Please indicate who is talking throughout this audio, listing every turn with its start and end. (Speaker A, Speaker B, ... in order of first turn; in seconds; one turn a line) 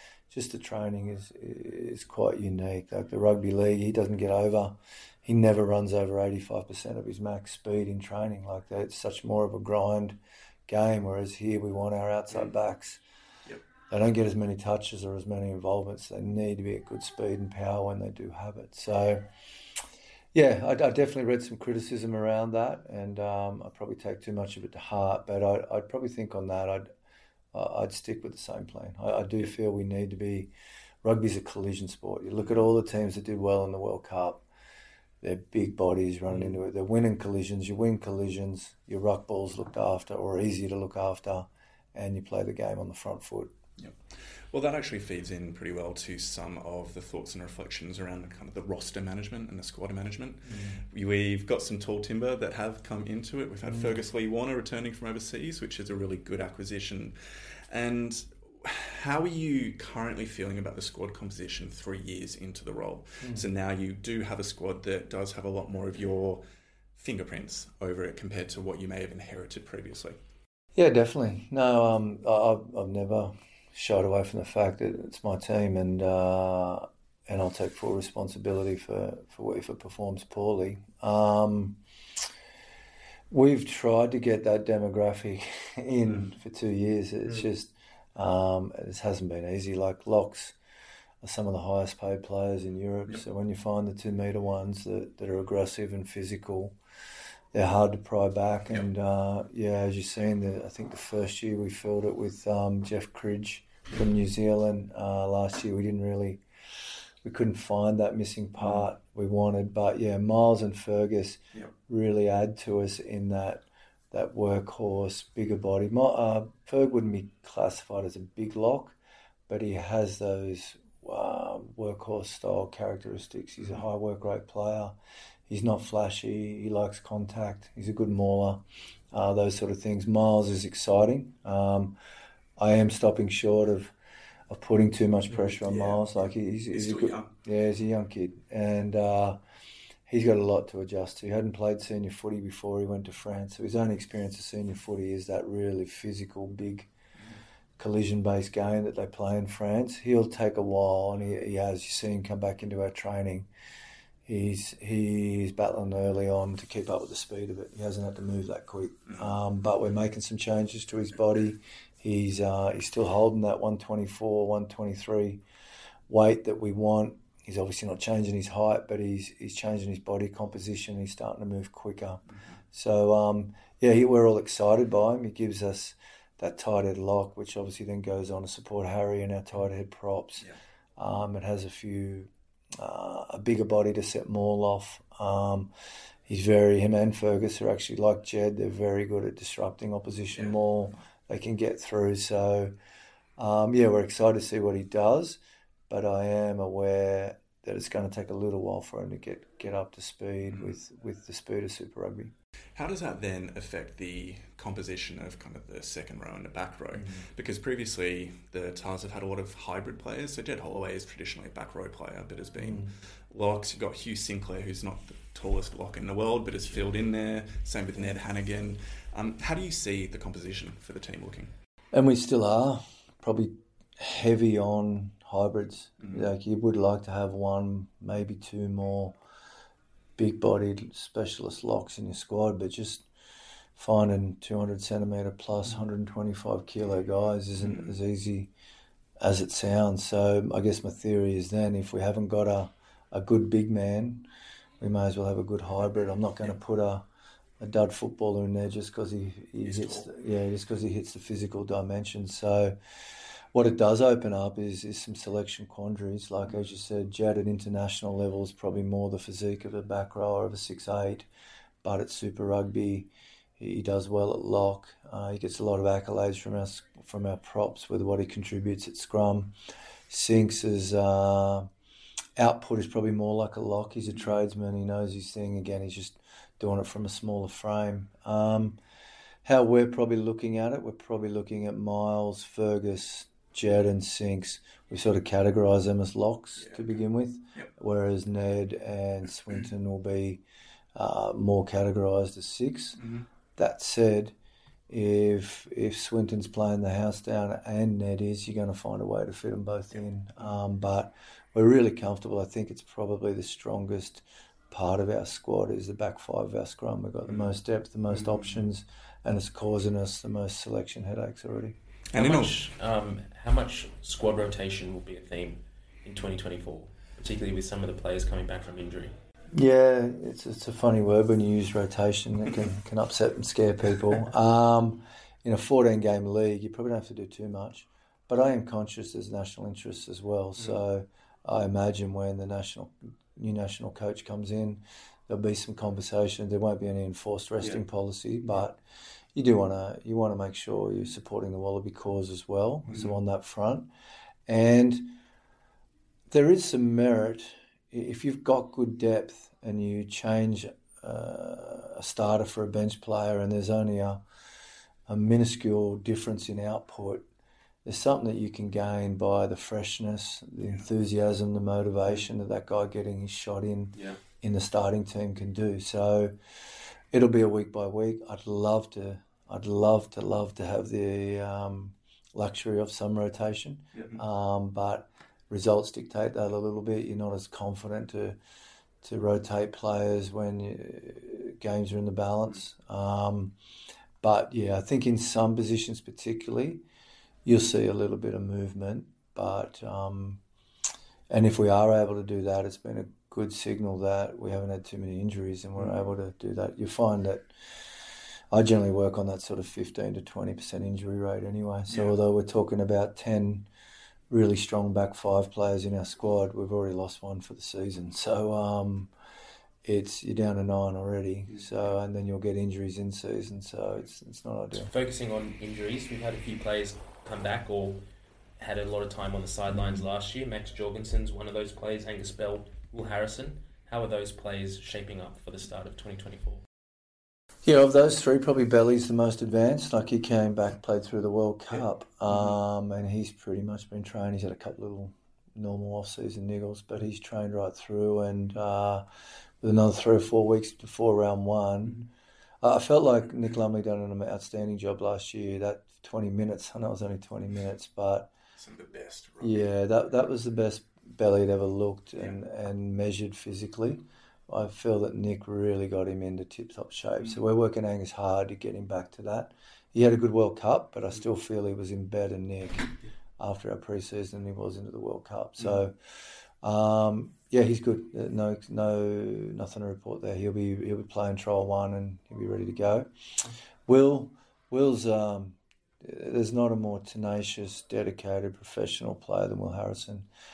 Speaker A: 0.3-13.0
Speaker A: 13.9-19.2
Speaker A: 20.3-26.9
Speaker A: 27.5-30.5
Speaker A: 31.0-34.4
Speaker A: 35.2-43.5
Speaker B: 43.8-66.4
Speaker A: 50.5-50.8
Speaker A: 53.7-54.0
Speaker B: 67.0-70.2
Speaker A: 70.7-81.8
Speaker A: 83.3-90.5
Speaker A: 91.2-96.8
Speaker A: 97.5-106.4
Speaker A: 107.2-119.0
Speaker A: 119.5-124.9
Speaker A: 125.5-131.9
Speaker A: 132.6-133.9
Speaker A: 134.5-139.4
Speaker B: 135.5-137.3
Speaker A: 140.1-146.9
Speaker A: 147.8-153.5
Speaker A: 154.2-165.4
Speaker A: 166.1-185.7
Speaker A: 186.2-192.7
Speaker A: 193.4-202.3
Speaker B: 202.7-221.5
Speaker A: 206.9-207.2
Speaker A: 212.6-212.9
Speaker A: 221.9-229.2
Speaker A: 230.2-233.1
Speaker A: 233.8-238.5
Speaker B: 237.6-237.9
Speaker A: 239.2-244.2
Speaker A: 244.8-247.0
Speaker A: 247.6-252.8
Speaker B: 249.7-250.0
Speaker A: 253.5-261.3
Speaker A: 261.8-269.5
Speaker A: 270.1-271.7
Speaker A: 272.4-278.8
Speaker A: 279.4-290.4
Speaker B: 286.6-286.9
Speaker A: 290.9-293.0
Speaker B: 293.0-293.2
Speaker A: 293.6-294.3
Speaker A: 294.9-311.8
Speaker B: 312.1-312.6
Speaker C: 312.1-319.1
Speaker A: 319.5-338.8
Speaker A: 339.3-343.9
Speaker A: 344.5-345.2
Speaker A: 346.3-354.2
Speaker A: 355.1-357.3
Speaker A: 357.8-366.3
Speaker A: 367.1-378.4
Speaker A: 379.0-383.5
Speaker A: 384.2-386.8
Speaker A: 387.4-390.4
Speaker A: 391.3-397.5
Speaker A: 398.5-403.7
Speaker B: 401.9-402.1
Speaker A: 404.3-409.1
Speaker A: 409.8-414.9
Speaker C: 414.8-418.0
Speaker C: 418.6-426.6
Speaker A: 427.6-439.0
Speaker A: 439.6-442.1
Speaker A: 442.6-448.3
Speaker B: 448.6-449.6
Speaker A: 449.4-480.3